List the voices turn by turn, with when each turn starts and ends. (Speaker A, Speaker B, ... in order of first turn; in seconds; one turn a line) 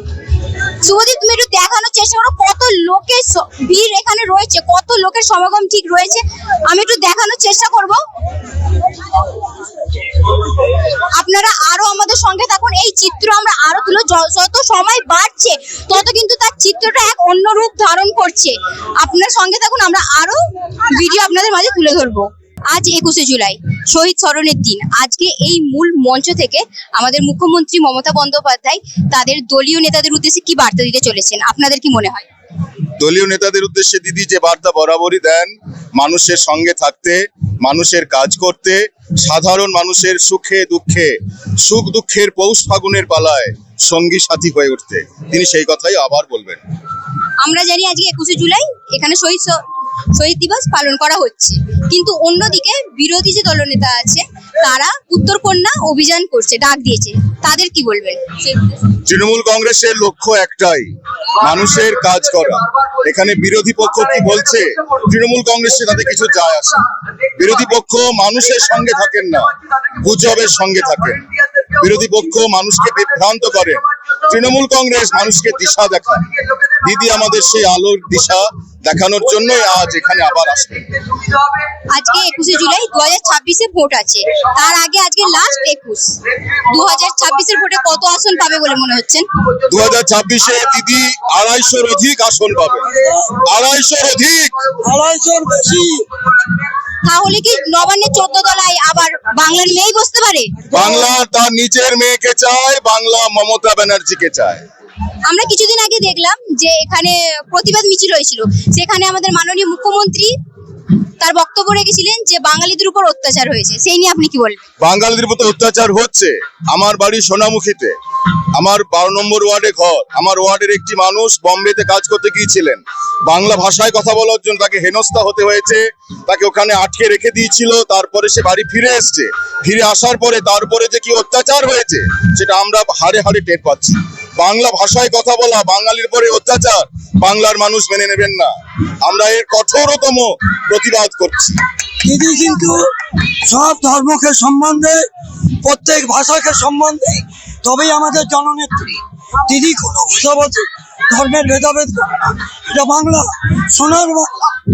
Speaker A: 0.8-8.0
Speaker A: 11.2-32.2
Speaker B: 33.0-41.1
Speaker B: 41.6-46.6
Speaker A: 47.4-49.6
Speaker A: 50.2-58.8
Speaker B: 59.0-66.8
Speaker B: 67.4-71.2
Speaker B: 71.8-76.3
Speaker B: 76.8-80.9
Speaker A: 81.9-89.2
Speaker B: 89.7-92.8
Speaker C: 93.0-93.3
Speaker B: 93.4-94.5
Speaker C: 94.8-96.0
Speaker A: 97.0-100.5
Speaker B: 100.7-104.6
Speaker A: 105.3-110.3
Speaker A: 111.2-114.6
Speaker B: 114.8-118.0
Speaker B: 118.6-141.6
Speaker C: 142.0-142.9
Speaker C: 143.4-145.0
Speaker C: 145.6-148.9
Speaker C: 149.5-154.4